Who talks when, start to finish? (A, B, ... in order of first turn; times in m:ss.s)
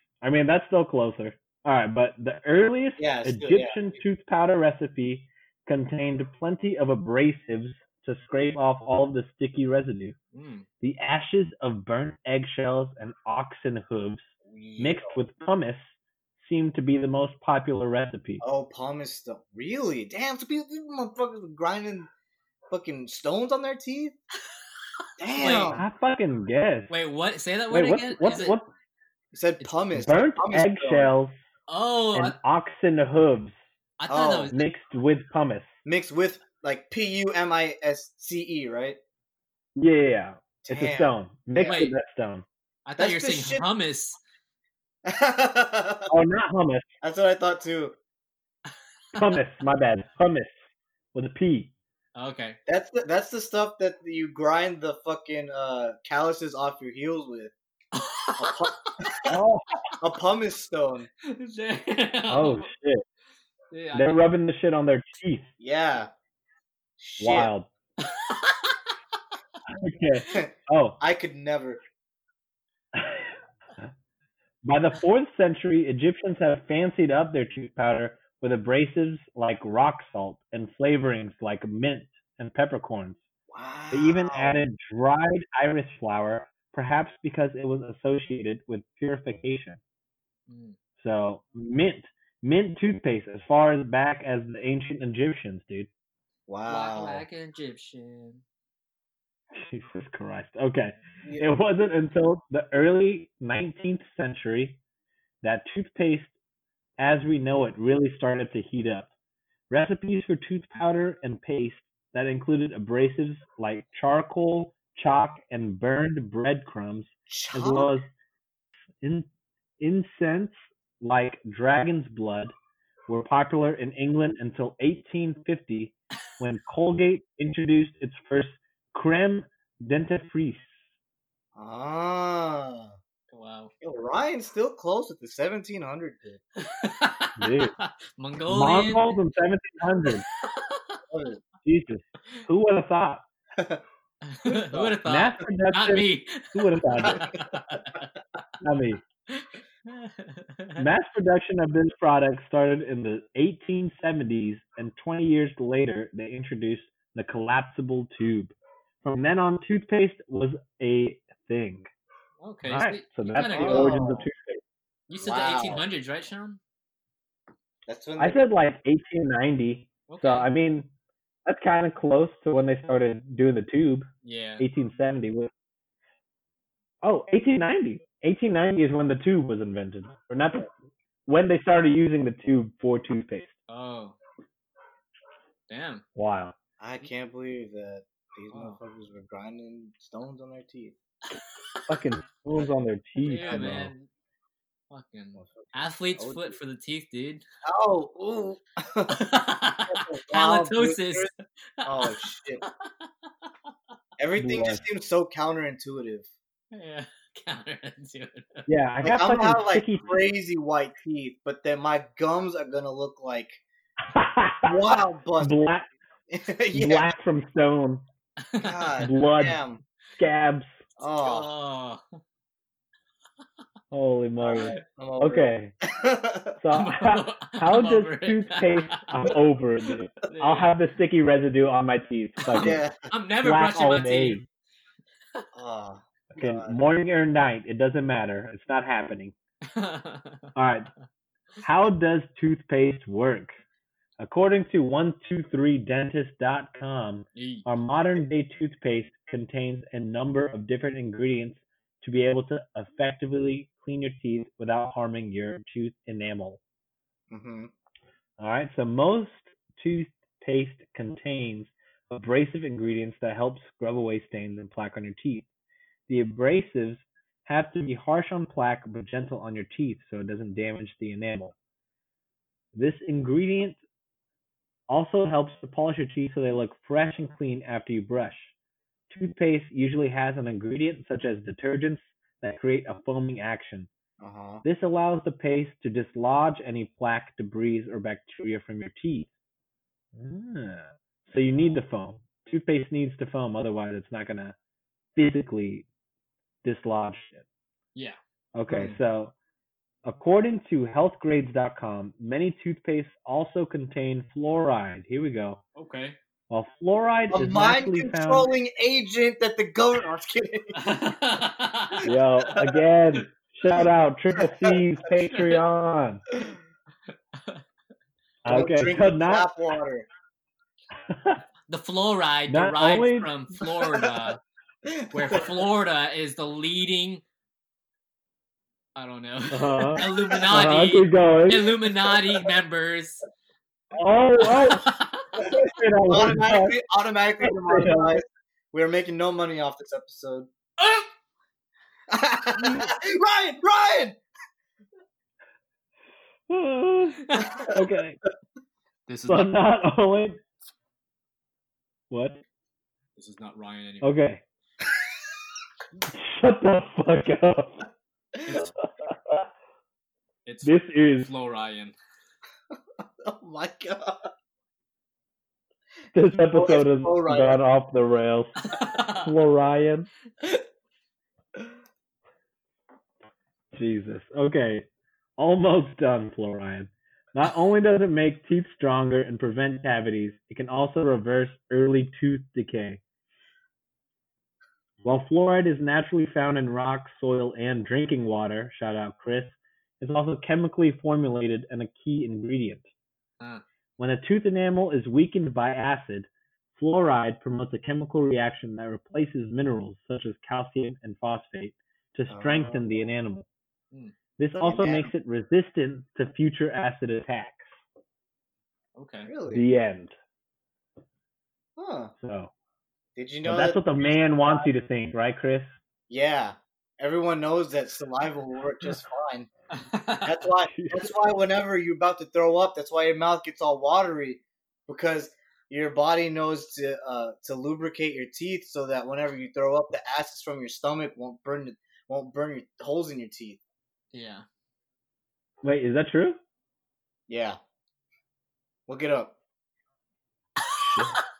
0:00.2-0:10.1 A
0:03.0-0:03.9 B
0:10.3-0:10.7 C
0:10.8-0:14.2 A
0:14.5-0:14.9 C
0:14.8-0:18.4 A
0:18.4-0:22.1 B
0:22.7-0:24.2 B
0:25.2-0:25.8 B
0:25.3-0:25.8 C
0:25.7-0:26.9 A
0:26.9-0:28.6 C
0:27.7-0:28.7 A
0:29.3-0:31.1 B
0:29.9-0:31.3 A
0:31.7-0:32.4 C
0:32.1-0:33.6 A
0:34.0-0:34.6 C
0:34.1-0:34.5 B
0:34.5-0:35.7 A
0:35.8-0:39.0 B
0:39.8-0:42.4 A
0:40.6-0:41.8 B
0:41.6-0:41.9 C
0:42.8-0:44.2 C
0:43.0-0:43.6 B
0:45.0-0:46.1 B
0:46.1-0:46.8 A
0:47.0-0:47.9 B
0:49.1-0:50.5 A
0:51.1-0:51.7 A
0:52.1-0:52.6 C
0:52.7-0:57.5 B
0:57.9-0:58.6 C
0:58.4-0:59.4 B
0:59.2-0:59.6 A
1:00.0-1:01.1 B
1:01.2-1:02.7 C
1:02.3-1:03.0 A
1:03.7-1:04.2 C
1:03.9-1:05.5 A
1:05.6-1:06.1 B
1:07.0-1:07.5 B
1:07.2-1:07.7 A
1:08.0-1:08.8 C
1:09.7-1:11.0 A
1:10.3-1:11.8 B
1:12.9-1:13.3 A
1:14.6-1:23.2 A
1:23.5-1:24.6 B
1:23.9-1:29.8 A
1:30.5-1:30.8 C
1:31.0-1:35.9 A
1:36.5-1:37.2 B
1:36.7-1:38.4 C
1:39.5-1:44.8 A
1:41.2-1:41.5 B
1:45.4-1:46.3 A
1:47.0-1:49.1 A
1:49.7-1:58.1 A
1:57.3-1:57.9 B
1:59.0-1:59.3 A
1:59.8-2:02.5 A
2:03.1-2:10.7 A
2:11.5-2:13.0 B
2:13.3-2:13.7 C
2:13.8-2:16.4 B
2:16.6-2:19.2 C
2:17.4-2:17.7 A
2:18.5-2:20.2 A
2:20.4-2:21.0 C
2:21.1-2:21.4 B
2:21.6-2:23.2 A
2:23.6-2:23.8 B
2:24.2-2:28.0 C
2:24.4-2:25.0 B
2:25.0-2:27.3 A
2:27.0-2:27.4 B
2:28.6-2:29.0 A
2:29.3-2:30.8 C
2:30.8-2:41.9 A
2:42.4-2:44.1 C
2:42.6-2:44.6 A
2:43.4-2:44.2 B
2:45.1-2:46.6 C
2:45.2-2:45.8 B
2:47.9-2:48.4 B
2:48.2-2:50.9 A
2:50.1-2:50.5 C
2:51.4-2:54.1 A
2:54.2-2:54.6 C
2:54.6-2:55.5 A
2:57.0-3:00.7 A
3:01.3-3:03.5 A
3:03.7-3:04.2 C
3:05.7-3:06.0 C
3:06.1-3:06.5 A
3:06.8-3:10.9 B
3:08.5-3:08.8 C
3:11.3-3:11.8 C
3:11.9-3:13.9 A
3:13.2-3:14.1 C
3:13.5-3:13.8 B
3:14.9-3:17.4 C
3:15.4-3:16.5 B
3:17.6-3:21.3 B
3:19.1-3:22.9 C
3:21.8-3:22.6 B
3:24.2-3:26.3 B
3:24.4-3:24.8 A
3:26.7-3:28.7 C
3:28.7-3:30.2 A
3:29.0-3:33.6 B
3:34.1-3:35.8 A
3:34.6-3:35.6 B
3:36.3-3:37.1 B
3:36.7-3:38.0 A
3:38.4-3:39.0 C
3:38.6-3:39.8 B
3:39.0-3:39.6 A
3:40.2-3:40.8 A
3:41.0-3:41.5 B
3:41.0-3:42.0 C
3:43.9-3:45.7 A
3:44.4-3:46.6 B
3:46.6-3:52.8 A
3:46.7-3:49.0 C
3:50.3-3:50.7 C
3:52.4-3:54.4 C
3:52.5-3:53.0 B
3:53.4-3:54.4 A
3:55.5-3:56.8 B
3:56.4-3:59.3 A
3:59.6-4:00.5 C
4:00.5-4:00.9 A
4:01.6-4:03.5 A
4:04.2-4:16.6 A
4:07.4-4:07.6 C
4:17.3-4:17.7 B
4:18.4-4:25.4 A
4:26.1-4:31.5 A
4:32.7-4:33.8 A
4:34.9-4:38.5 A
4:39.1-4:43.9 A
4:44.2-4:44.6 B
4:44.6-4:49.3 A
4:50.1-4:54.6 A
4:55.2-4:55.8 A
4:56.6-4:57.4 A
4:58.5-4:59.3 A
4:58.7-4:59.0 B
5:00.0-5:05.6 A
5:05.8-5:06.2 C
5:06.5-5:08.5 A
5:07.3-5:11.0 B
5:10.8-5:12.0 C
5:12.0-5:12.7 B
5:12.0-5:16.2 A
5:14.4-5:14.8 B
5:15.3-5:15.6 C
5:18.4-5:19.5 A
5:18.5-5:20.1 B
5:21.1-5:21.4 A
5:21.7-5:24.4 C
5:22.5-5:23.3 A
5:24.9-5:25.5 B
5:25.1-5:27.2 C
5:29.0-5:33.2 C
5:29.5-5:31.7 A
5:30.0-5:30.4 B
5:33.9-5:36.7 A
5:34.4-5:35.4 C
5:35.4-5:40.5 B
5:37.4-5:38.2 A
5:42.1-5:44.2 B
5:42.6-5:42.9 A
5:46.5-5:48.2 A
5:47.2-5:47.5 C
5:49.1-5:49.5 C
5:49.2-5:50.4 A
5:52.1-5:52.4 A
5:53.2-5:54.2 C
5:54.0-5:54.4 A
5:56.1-5:57.8 A
5:58.5-5:59.4 A
6:00.4-6:01.9 C
6:00.6-6:01.3 A
6:03.2-6:04.3 B
6:06.1-6:10.1 A
6:06.5-6:07.6 B
6:08.7-6:09.3 C
6:13.7-6:14.8 A
6:15.4-6:23.0 A
6:25.0-6:32.8 A
6:34.0-6:43.4 A
6:42.3-6:42.9 B
6:44.4-6:47.7 A
6:44.6-6:45.1 B
6:48.9-6:49.3 C
6:49.3-6:49.6 B
6:49.5-6:50.1 A
6:51.8-6:52.1 B
6:52.2-6:52.5 A
6:53.2-6:54.7 B
6:53.4-6:55.7 A
6:56.1-6:59.5 B
6:59.7-7:00.3 C
7:00.2-7:13.6 B
7:00.7-7:01.1 A
7:14.1-7:14.4 C
7:15.6-7:16.4 A
7:17.3-7:17.6 B
7:18.9-7:19.3 B
7:20.6-7:21.1 C
7:20.8-7:21.2 A